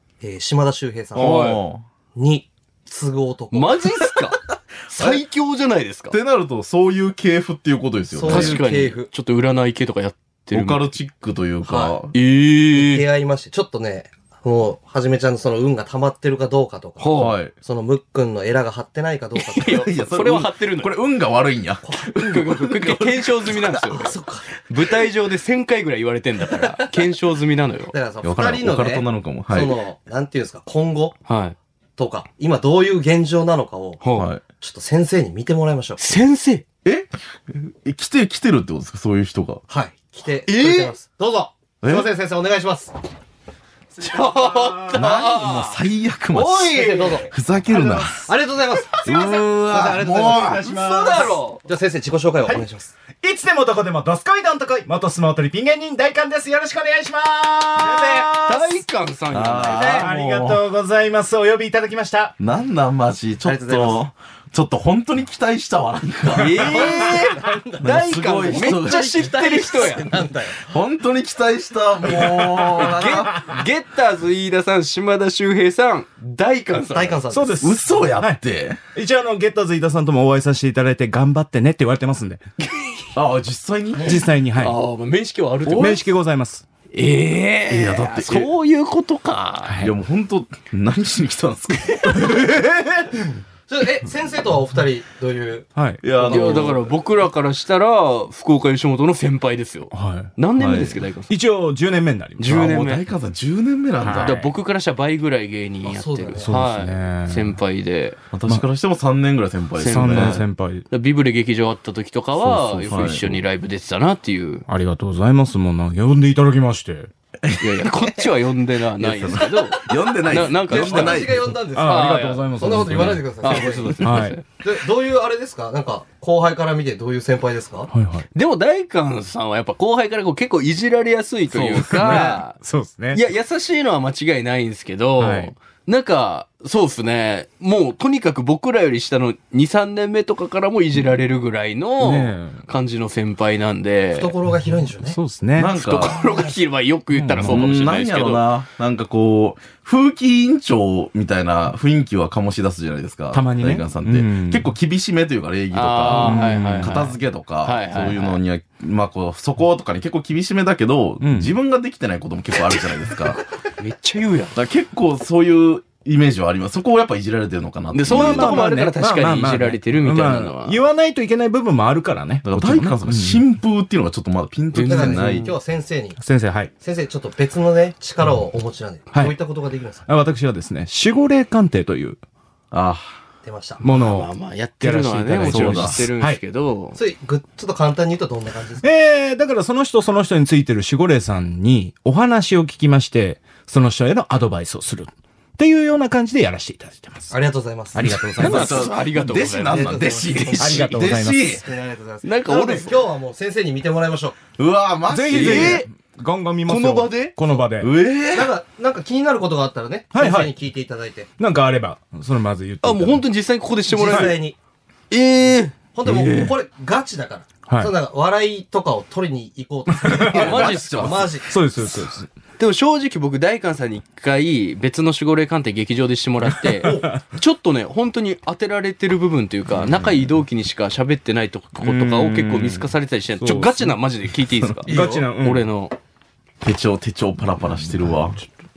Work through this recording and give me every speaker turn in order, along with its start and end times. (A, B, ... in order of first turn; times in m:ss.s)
0:00.2-0:01.5 A
0:01.2-0:01.8 B
0:01.2-0:01.6 C
0:02.2-0:04.1 A
0:03.5-0:06.2 C
0:06.1-0:08.6 B
0:08.1-0:09.1 A
0:08.2-0:10.9 C
0:10.5-0:12.1 B
0:11.6-0:12.0 A
0:12.1-0:13.0 C
0:12.7-0:19.8 A
0:17.0-0:17.4 C
0:17.2-0:17.5 B
0:19.4-0:20.9 C
0:19.7-0:23.7 B
0:21.8-0:22.4 A
0:22.2-0:24.2 C
0:23.8-0:24.5 A
0:24.7-0:27.9 C
0:27.9-0:31.2 A
0:28.2-0:29.8 B
0:31.3-0:31.6 C
0:32.0-0:34.0 A
0:34.0-0:34.3 C
0:34.2-0:34.4 B
0:34.6-0:36.2 A
0:36.0-0:36.6 C
0:36.8-0:39.6 B
0:39.7-0:42.9 A
0:40.5-0:41.0 C
0:41.8-0:42.1 B
0:44.0-0:45.8 C
0:44.2-0:44.8 D
0:44.9-0:48.3 B
0:46.4-0:52.9 A
0:46.4-0:47.2 C
0:49.0-0:50.7 B
0:50.5-0:51.3 D
0:50.7-0:51.6 C
0:53.2-0:58.8 D
0:58.4-1:00.1 C
0:59.3-1:00.6 B
0:59.8-1:02.4 D
1:02.4-1:07.1 B
1:03.4-1:04.0 A
1:06.3-1:10.2 C
1:06.7-1:07.9 A
1:07.8-1:09.4 B
1:08.4-1:10.7 A
1:10.6-1:13.3 B
1:12.2-1:13.4 A
1:12.5-1:17.2 C
1:16.9-1:17.7 A
1:17.3-1:18.4 D
1:17.6-1:18.8 B
1:19.0-1:22.4 D
1:23.2-1:24.2 B
1:24.0-1:24.8 D
1:24.6-1:26.1 C
1:25.6-1:26.0 B
1:25.7-1:26.6 D
1:26.9-1:29.8 C
1:27.7-1:28.5 B
1:29.6-1:29.9 D
1:29.8-1:32.3 B
1:32.1-1:33.3 D
1:33.7-1:36.8 A
1:35.8-1:36.0 D
1:36.0-1:36.8 B
1:36.3-1:41.3 C
1:39.9-1:40.3 D
1:40.6-1:40.9 B
1:41.3-1:42.7 D
1:42.4-1:43.0 C
1:42.5-1:44.4 B
1:44.0-1:44.5 D
1:44.1-1:48.2 C
1:45.8-1:46.6 A
1:46.4-1:47.6 D
1:48.3-1:50.4 B
1:49.8-1:54.7 C
1:49.9-1:50.9 D
1:52.4-1:53.1 D
1:52.9-1:53.4 B
1:54.7-1:57.1 D
1:57.4-1:58.2 B
1:57.6-2:04.4 C
1:59.0-2:01.6 B
2:00.6-2:07.9 A
2:01.7-2:04.4 D
2:07.9-2:08.3 D
2:08.3-2:12.6 C
2:11.6-2:13.2 D
2:13.1-2:24.3 C
2:15.2-2:15.5 D
2:22.0-2:22.6 D
2:24.1-2:25.2 A
2:25.0-2:25.7 D
2:25.6-2:26.2 B
2:25.8-2:28.4 C
2:26.1-2:26.5 A
2:27.1-2:27.7 D
2:27.5-2:43.4 B
2:33.3-2:34.7 D
2:35.7-2:38.4 C
2:36.1-2:37.1 D
2:41.2-2:41.5 D
2:43.8-2:44.6 C
2:44.5-2:48.6 B
2:47.9-2:50.8 C
2:48.1-2:53.4 D
2:52.4-2:55.5 B
2:54.7-2:55.5 C
2:54.8-2:56.2 A
2:56.2-2:56.7 D
2:56.8-3:00.0 A
3:00.1-3:02.2 D
3:02.7-3:03.2 B
3:03.4-3:03.8 A
3:03.8-3:06.4 D
3:03.8-3:07.0 C
3:05.5-3:06.1 B
3:07.0-3:08.8 A
3:08.8-3:17.4 D
3:17.3-3:18.8 A
3:17.9-3:18.8 D
3:18.4-3:21.6 B
3:18.4-3:21.0 C
3:19.7-3:24.4 A
3:20.6-3:21.6 D
3:22.2-3:23.0 C
3:24.6-3:25.9 B
3:25.1-3:27.9 D
3:25.3-3:25.9 C
3:26.7-3:27.4 C
3:27.8-3:28.5 B
3:28.3-3:31.3 A
3:30.1-3:30.5 D
3:31.4-3:33.3 D
3:32.8-3:34.4 C
3:33.9-3:34.6 A
3:34.1-3:34.4 D
3:35.1-3:36.5 C
3:35.9-3:41.6 A
3:36.2-3:36.5 D
3:37.7-3:37.9 D
3:40.0-3:40.6 D
3:40.3-3:41.3 B
3:40.3-3:41.3 C
3:41.5-3:42.3 D
3:42.6-3:56.0 C
3:46.6-3:47.2 D
3:51.8-3:52.9 D
3:53.4-3:54.0 D
3:54.9-3:55.3 A
3:54.9-3:55.7 D
3:56.6-3:58.4 B